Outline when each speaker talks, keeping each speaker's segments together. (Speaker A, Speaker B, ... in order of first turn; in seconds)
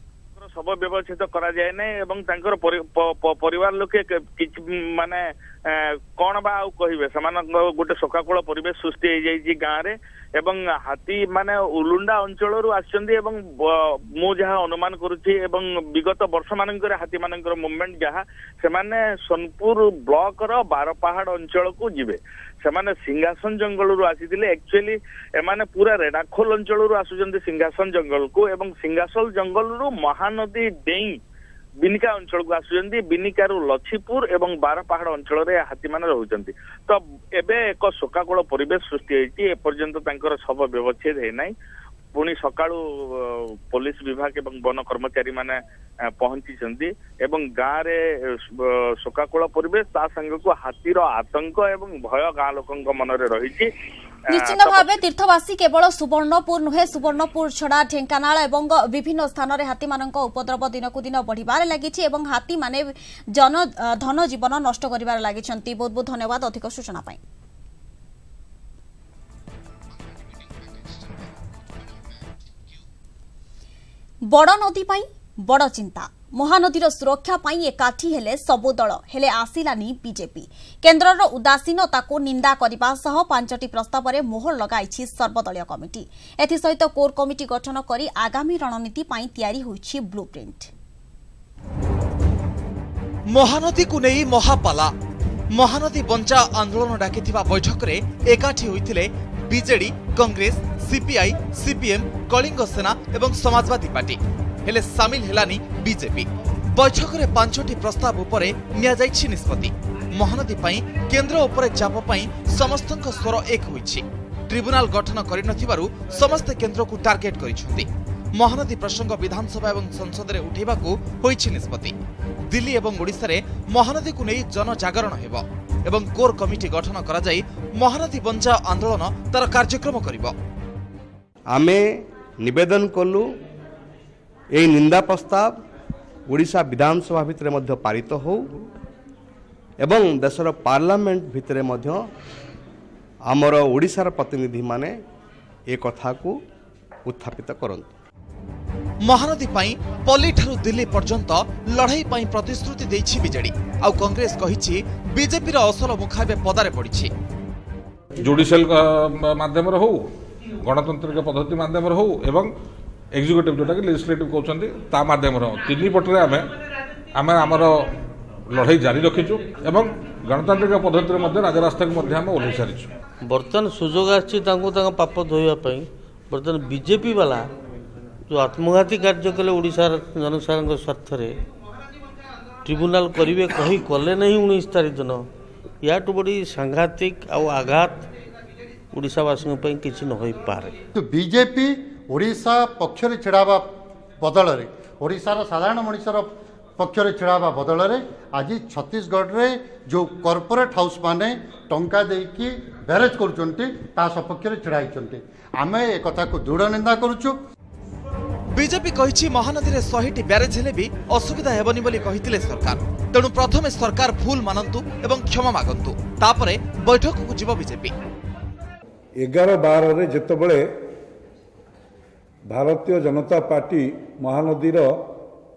Speaker A: 0.4-31.1, 31.8-41.5, 42.1-45.5, 46.2-48.0, 48.6-53.7, 54.4-55.0
Speaker B: 54.3-67.2, 74.3-90.7
Speaker C: 93.3-94.9, 95.5-121.9, 122.5-130.3, 149.0-157.1, 208.5-217.9
Speaker D: 131.5-133.3, 134.5-135.6, 136.3-138.7, 139.8-142.0, 143.2-145.0, 145.7-146.3, 147.0-147.9
Speaker E: 158.2-160.0, 160.6-162.5, 163.1-166.5, 167.1-167.8, 168.5-172.9
Speaker F: 173.2-177.5, 178.3-181.3, 182.7-185.2, 185.8-188.0, 188.9-190.7
Speaker G: 190.9-193.7, 194.2-207.3
Speaker H: 219.2-220.6, 222.5-224.9